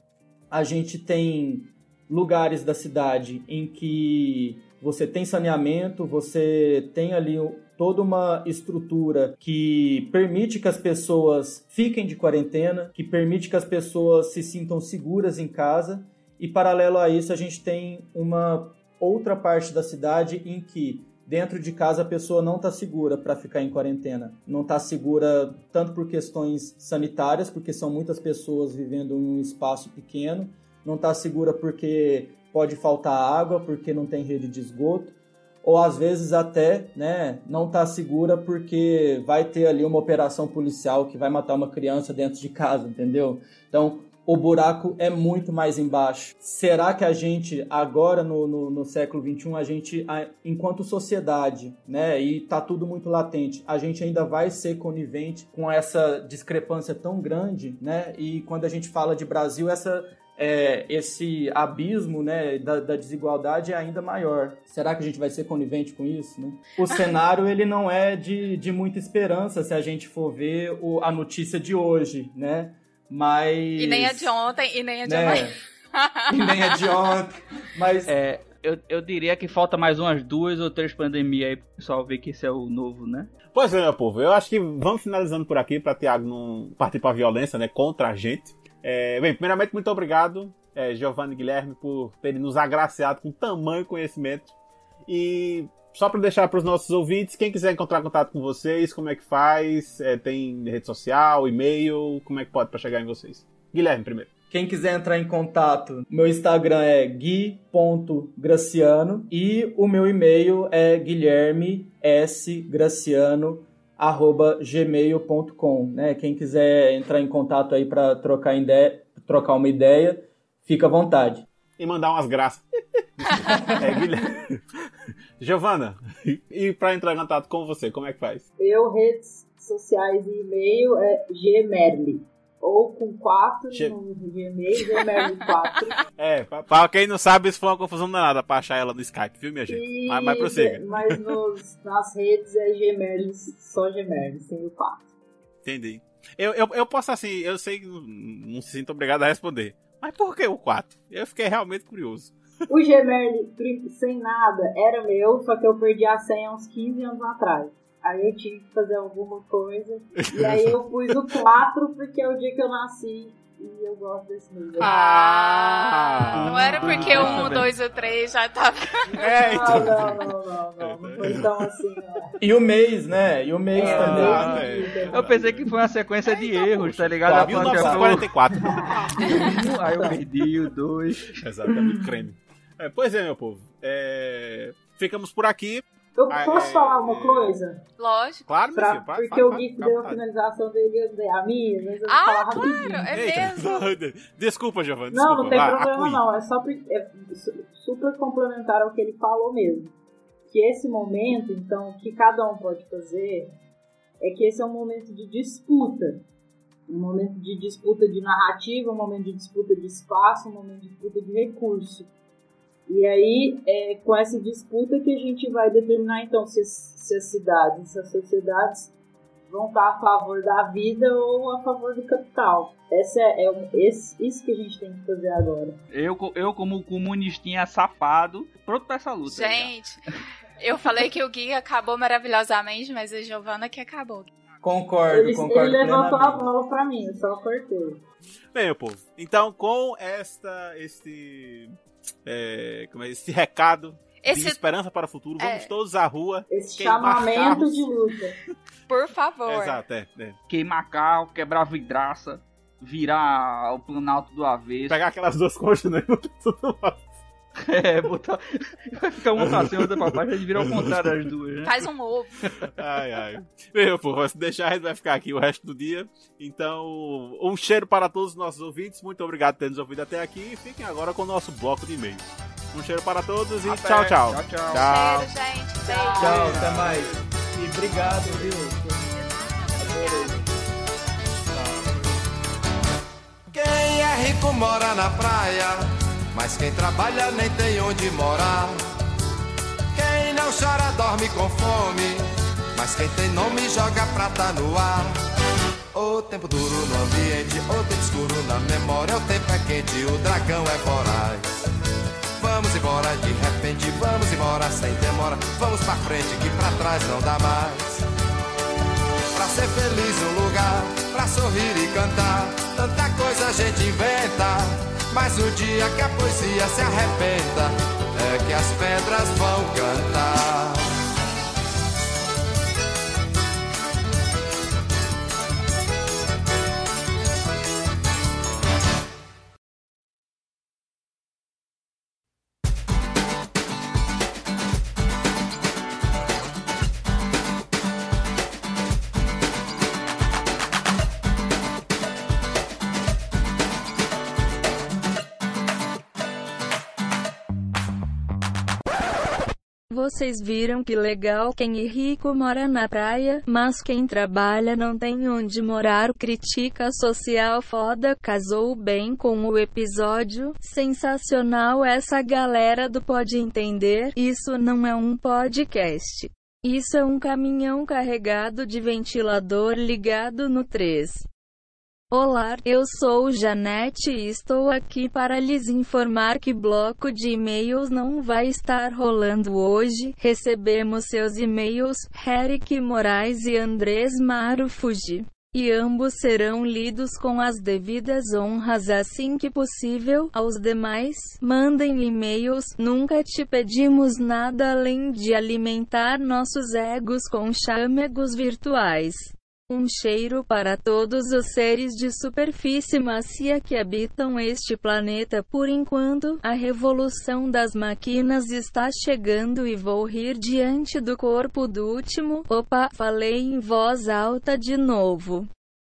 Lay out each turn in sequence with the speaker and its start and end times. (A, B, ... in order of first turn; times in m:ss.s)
0:00.5-1:14.3 A
1:13.8-1:16.3 B
1:15.0-1:15.6 A
1:16.3-1:18.1 A
1:18.1-1:23.3 C
1:23.5-1:34.5 D
1:35.1-1:44.3 D
1:44.5-2:01.5 A
2:01.8-2:04.6 D
2:05.4-2:08.4 D
2:08.6-2:16.0 E
2:16.2-2:21.2 D
2:19.7-2:25.1 E
2:25.6-2:32.3 D
2:32.7-2:44.9 E
2:40.2-2:41.1 D
2:44.8-2:47.7 D
2:44.8-2:49.2 B
2:46.4-2:47.7 C
2:49.1-2:52.3 E
2:49.2-2:50.3 D
2:50.8-2:51.7 D
2:52.4-2:54.6 A
2:53.7-2:55.4 E
2:53.8-2:55.7 D
2:54.2-2:54.5 B
2:55.1-2:58.3 C
2:56.6-2:59.6 D
2:57.2-2:58.2 A
2:58.6-3:00.1 E
2:59.2-3:01.4 C
3:01.4-3:07.5 D
3:06.1-3:07.8 E
3:08.0-3:08.5 B
3:08.5-3:10.2 D
3:08.7-3:13.1 E
3:12.1-3:14.0 B
3:13.1-3:16.2 D
3:15.1-3:19.9 E
3:20.5-3:23.5 E
3:24.2-3:26.2 E
3:26.9-3:32.1 E
3:32.9-3:38.9 E
3:39.5-3:45.8 E
3:45.9-3:49.7 C
3:49.2-3:50.0 B
3:50.6-3:54.3 B
3:54.6-3:56.4 A
3:55.1-3:58.0 E
3:58.5-4:07.9 D
4:04.2-4:04.6 B
4:05.4-4:05.7 B
4:06.5-4:08.4 E
4:08.9-4:09.8 B
4:09.4-4:10.4 D
4:10.5-4:15.0 C
4:14.9-4:17.0 D
4:17.6-4:21.7 C
4:19.4-4:20.1 D
4:20.6-4:21.1 D
4:21.6-4:22.4 B
4:22.6-4:35.3 D
4:33.6-4:34.9 C
4:34.7-4:36.9 B
4:35.8-4:36.9 E
4:36.2-4:38.9 A
4:36.3-4:36.9 C
4:39.0-4:40.5 B
4:43.5-4:48.9 F
4:49.9-4:55.3 F
4:55.9-5:01.6 F
5:02.4-5:08.0 F
5:09.3-5:20.9 F
5:49.9-6:11.2 G
6:12.1-6:55.5 G